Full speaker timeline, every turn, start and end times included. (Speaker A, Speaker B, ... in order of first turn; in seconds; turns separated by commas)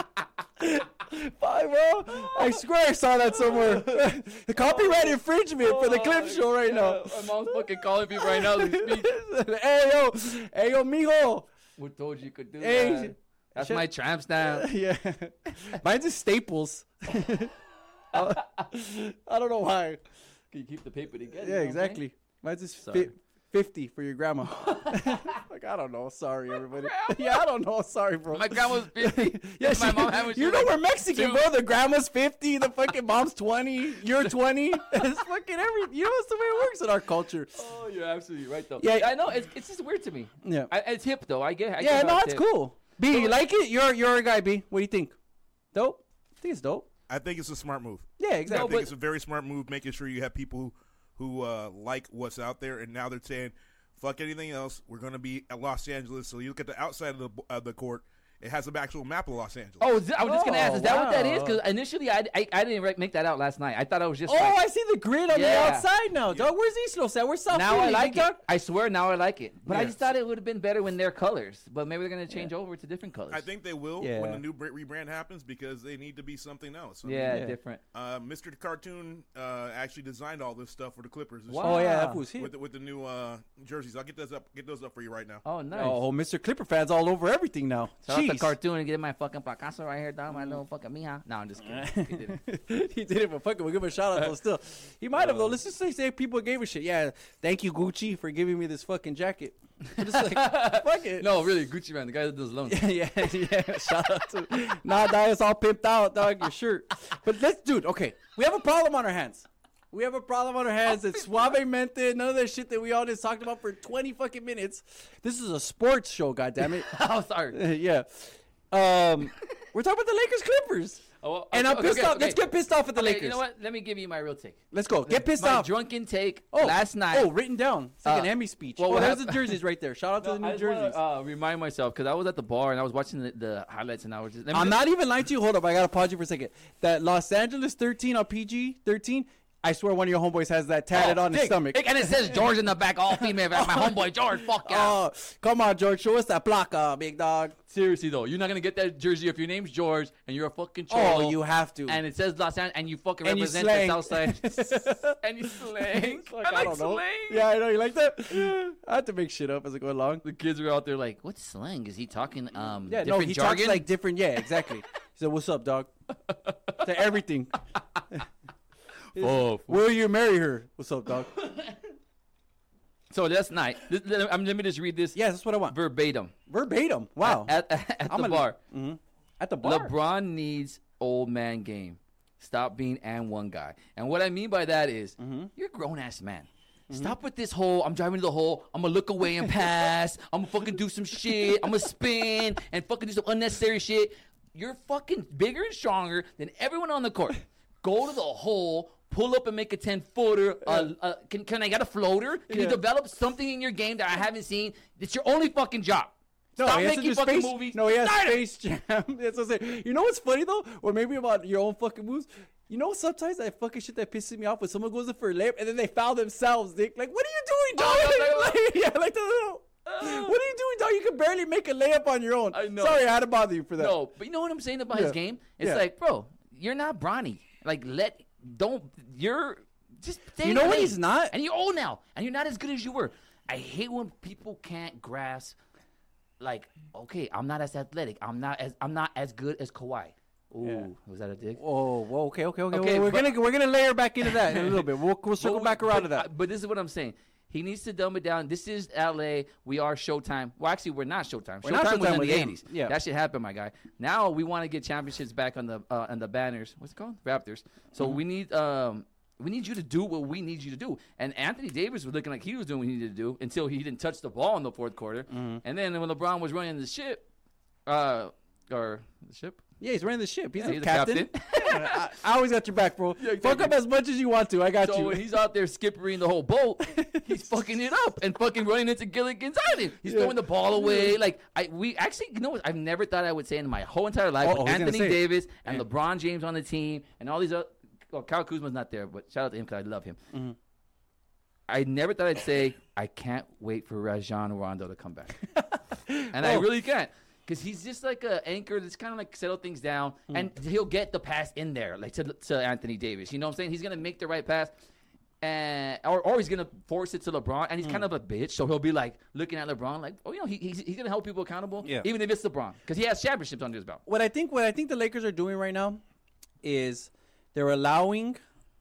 Speaker A: 0.6-11.5, Speaker B: 2.1-2.5, Speaker B: 3.4-9.1, Speaker B: 11.8-14.7, Speaker A: 12.6-17.5, Speaker A: 18.1-20.0, Speaker B: 18.2-18.7, Speaker B: 20.5-22.0, Speaker A: 21.3-37.5, Speaker B: 22.8-23.1, Speaker B: 24.6-25.4, Speaker B: 26.7-27.4, Speaker B: 28.3-31.4, Speaker B: 37.5-42.4, Speaker A: 38.8-39.1, Speaker A: 40.4-40.7, Speaker A: 41.8-45.1, Speaker B: 43.1-43.4, Speaker A: 45.7-46.9, Speaker C: 47.1-59.9, Speaker A: 48.2-48.7, Speaker B: 48.5-48.9, Speaker B: 59.8-64.6, Speaker A: 60.2-61.6, Speaker A: 64.3-68.4, Speaker B: 65.3-65.9, Speaker B: 67.5-73.5, Speaker C: 69.7-70.0, Speaker C: 73.3-85.4, Speaker A: 74.0-74.4, Speaker B: 77.0-77.8, Speaker A: 77.3-77.5, Speaker B: 81.5-82.2, Speaker A: 81.6-82.5, Speaker B: 85.4-86.0, Speaker A: 85.7-88.5, Speaker B: 88.0-92.4, Speaker A: 91.6-101.3, Speaker B: 95.2-95.5, Speaker B: 99.9-103.7, Speaker A: 102.7-116.9, Speaker B: 116.9-117.6, Speaker A: 117.5-123.4, Speaker B: 121.2-127.3, Speaker A: 124.7-125.7, Speaker A: 126.5-131.0, Speaker B: 128.0-129.6, Speaker B: 130.2-134.8, Speaker A: 134.5-142.5, Speaker B: 140.9-145.0, Speaker A: 143.2-144.0, Speaker A: 144.6-147.6, Speaker B: 147.7-157.4, Speaker A: 150.9-152.0, Speaker A: 153.2-160.2, Speaker B: 160.2-163.9, Speaker A: 162.9-165.9, Speaker B: 166.3-166.9, Speaker A: 166.8-167.6, Speaker B: 167.8-168.0, Speaker B: 169.1-169.8, Speaker A: 169.2-171.3, Speaker B: 171.4-171.7, Speaker B: 173.1-176.3, Speaker A: 175.1-175.8, Speaker A: 176.5-177.5, Speaker B: 177.2-178.6, Speaker A: 178.1-179.9, Speaker B: 179.6-208.4, Speaker A: 185.2-185.5, Speaker A: 186.9-187.2, Speaker A: 202.5-202.8, Speaker A: 206.6-224.0, Speaker B: 217.8-218.6, Speaker B: 219.8-220.4, Speaker B: 222.5-223.0, Speaker B: 223.8-235.6, Speaker A: 224.9-225.8, Speaker A: 230.4-231.3, Speaker B: 236.4-241.6, Speaker A: 240.6-240.9, Speaker A: 241.6-246.3, Speaker B: 242.7-243.4, Speaker B: 244.3-244.9, Speaker B: 245.4-267.3, Speaker A: 251.6-252.9, Speaker A: 265.3-265.6, Speaker B: 267.9-269.6, Speaker A: 269.8-275.2, Speaker B: 270.6-272.1, Speaker B: 273.2-273.8, Speaker B: 274.8-290.2, Speaker A: 280.0-281.2, Speaker A: 284.4-285.8, Speaker B: 291.7-295.4, Speaker A: 295.6-296.7, Speaker B: 296.3-304.7, Speaker B: 305.4-314.0, Speaker A: 314.1-316.0, Speaker A: 316.6-318.4